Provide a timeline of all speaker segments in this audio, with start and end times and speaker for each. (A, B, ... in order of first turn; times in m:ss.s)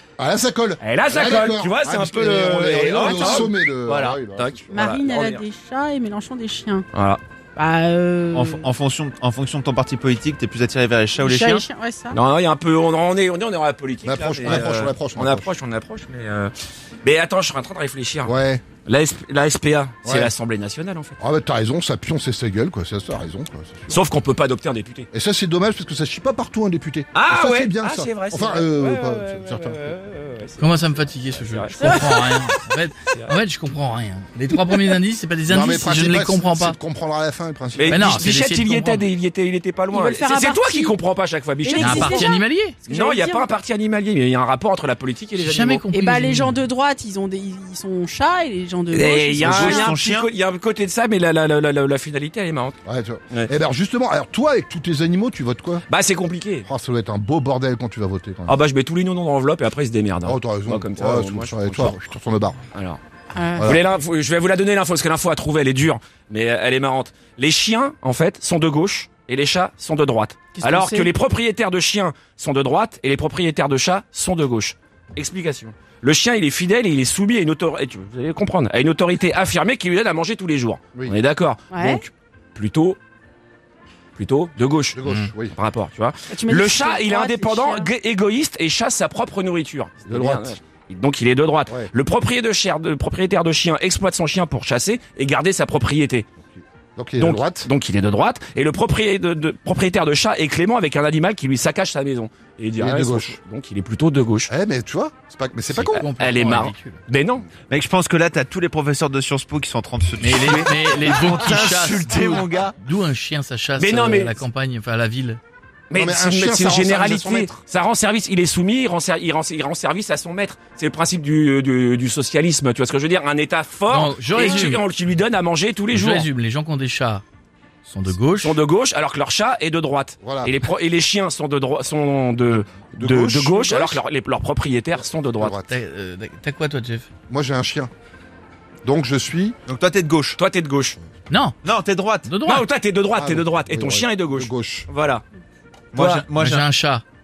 0:00.2-0:04.6 A
0:00.8-0:05.4 B
0:03.0-0:03.5 C
0:04.7-0:06.8 C
0:06.9-0:07.2 B
0:07.6-0:08.7 C
0:08.3-0:11.7 D
0:11.2-0:12.2 C
0:12.1-0:18.3 B
0:14.0-0:15.5 A
0:18.2-0:18.6 A
0:18.8-0:21.2 B
0:20.0-0:20.3 A
0:21.2-0:24.0 A
0:23.9-0:25.1 B
0:25.1-0:29.8 A
0:27.1-0:32.1 B
0:30.6-0:36.8 E
0:31.8-0:32.5 C
0:33.1-0:33.4 B
0:35.5-0:38.2 A
0:37.8-0:42.3 B
0:37.9-0:39.1 E
0:39.9-0:41.0 C
0:41.6-0:43.5 C
0:41.8-0:42.8 E
0:42.8-0:45.8 B
0:45.4-0:46.6 E
0:45.9-0:50.0 C
0:48.9-0:52.8 B
0:49.4-0:50.3 D
0:52.8-0:55.8 A
0:55.9-0:56.7 B
0:56.6-0:58.6 A
0:58.5-1:02.0 B
1:00.2-1:02.6 A
1:02.7-1:03.0 B
1:03.4-1:03.7 C
1:03.6-1:03.8 A
1:03.6-1:23.0 B
1:10.5-1:11.1 C
1:21.7-1:22.0 C
1:24.2-1:36.3 B
1:25.0-1:25.5 A
1:25.0-1:25.3 E
1:26.3-1:27.9 C
1:30.1-1:30.6 A
1:31.7-1:31.9 A
1:36.5-1:37.7 A
1:37.2-1:44.5 B
1:42.8-1:43.4 A
1:44.5-1:46.0 A
1:45.7-1:47.0 E
1:46.0-1:47.5 B
1:47.6-1:52.8 D
1:50.2-1:55.4 E
1:53.8-1:54.4 B
1:55.9-2:06.3 B
1:55.9-1:57.6 A
2:03.9-2:04.8 E
2:05.9-2:07.2 E
2:07.8-2:08.6 E
2:08.4-2:15.6 B
2:10.2-2:10.6 A
2:12.9-2:14.0 A
2:14.9-2:15.7 A
2:15.7-2:17.1 E
2:17.3-2:17.9 A
2:18.8-2:19.6 A
2:19.7-2:20.4 D
2:20.4-2:21.0 B
2:21.3-2:21.6 E
2:21.6-2:22.3 D
2:22.2-2:22.7 E
2:22.4-2:25.2 B
2:23.2-2:24.9 A
2:25.9-2:26.7 D
2:26.0-2:26.3 B
2:26.4-2:27.0 E